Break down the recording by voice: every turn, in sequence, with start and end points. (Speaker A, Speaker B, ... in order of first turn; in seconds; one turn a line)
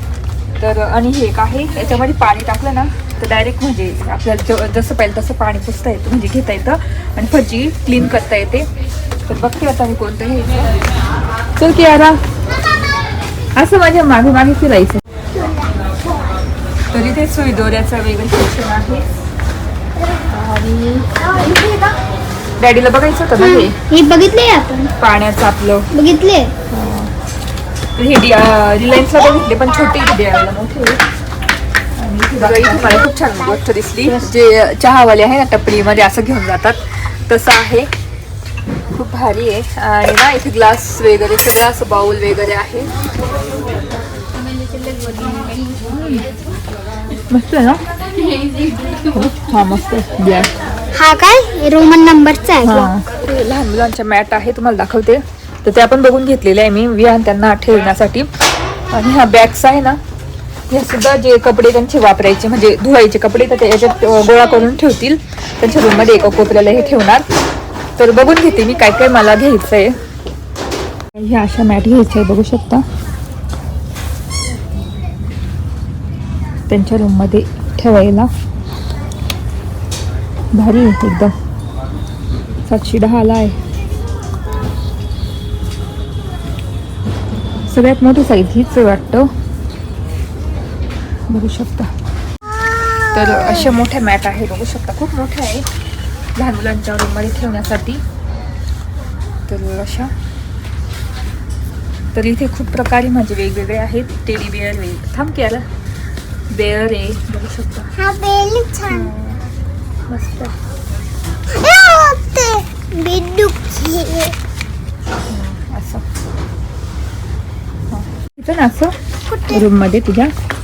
Speaker A: 0.6-8.7
Speaker A: 9.3-10.7
Speaker A: 11.6-12.2
Speaker A: 13.6-15.0
Speaker B: 15.3-16.4
Speaker A: 16.9-19.0
Speaker A: 20.3-21.1
Speaker B: 21.1-22.0
Speaker A: 22.6-23.7
Speaker B: 23.4-24.9
Speaker A: 25.0-25.9
Speaker B: 25.9-26.5
Speaker A: 26.7-27.1
Speaker A: 28.0-31.0
Speaker A: 32.0-37.9
Speaker B: 32.4-34.3
Speaker A: 38.9-42.9
Speaker B: 44.9-45.6
Speaker A: 45.9-46.2
Speaker A: 47.3-47.9
Speaker A: 49.1-50.5
Speaker B: 50.9-52.9
Speaker A: 52.6-58.3
Speaker A: 58.9-60.0
Speaker A: 60.7-67.2
Speaker B: 65.8-66.7
Speaker A: 68.0-70.0
Speaker A: 71.2-72.8
Speaker A: 76.7-78.3
Speaker A: 80.5-81.3
Speaker A: 82.7-83.5
Speaker A: 87.7-89.3
Speaker A: 91.3-91.9
Speaker A: 93.1-95.7
Speaker A: 96.3-98.0
Speaker A: 99.5-100.1
Speaker A: 102.1-105.6
Speaker A: 106.5-107.9
Speaker B: 107.9-109.1
Speaker A: 108.9-109.4
Speaker A: 110.1-110.5
Speaker B: 111.5-114.3
Speaker A: 115.3-116.0
Speaker A: 117.9-118.9
Speaker B: 119.3-119.7
Speaker A: 119.5-120.3